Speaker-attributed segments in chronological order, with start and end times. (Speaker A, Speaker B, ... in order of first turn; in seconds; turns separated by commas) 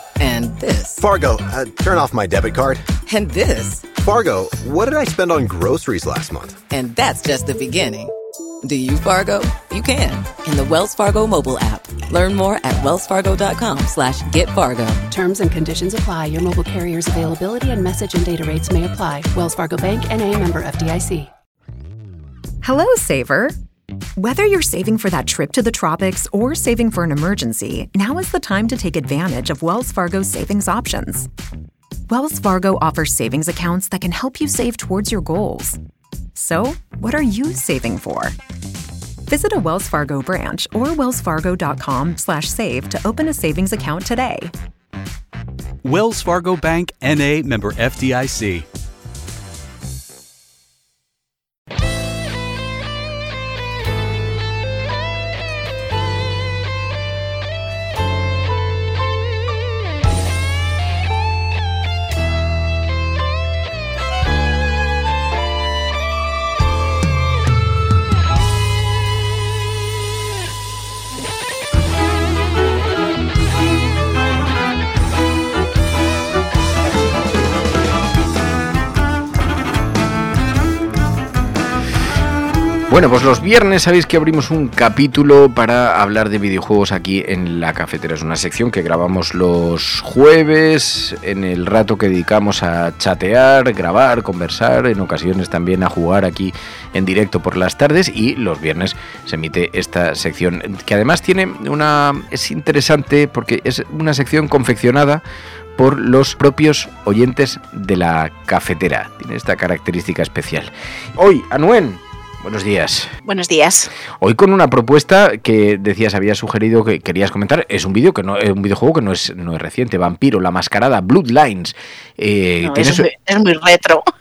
Speaker A: 0.2-1.0, Speaker B: 1.0-2.8, Speaker A: 3.1-3.9, Speaker B: 4.0-6.6, Speaker A: 6.7-8.1, Speaker A: 8.6-15.0, Speaker C: 15.1-21.3, Speaker D: 22.6-23.6, Speaker D: 24.2-31.3, Speaker D: 32.1-35.8, Speaker D: 36.4-38.4, Speaker D: 39.3-44.5, Speaker E: 45.8-48.7, Speaker F: 82.9-105.2, Speaker F: 105.8-113.1, Speaker G: 113.2-113.9, Speaker F: 114.2-123.1, Speaker G: 122.6-124.0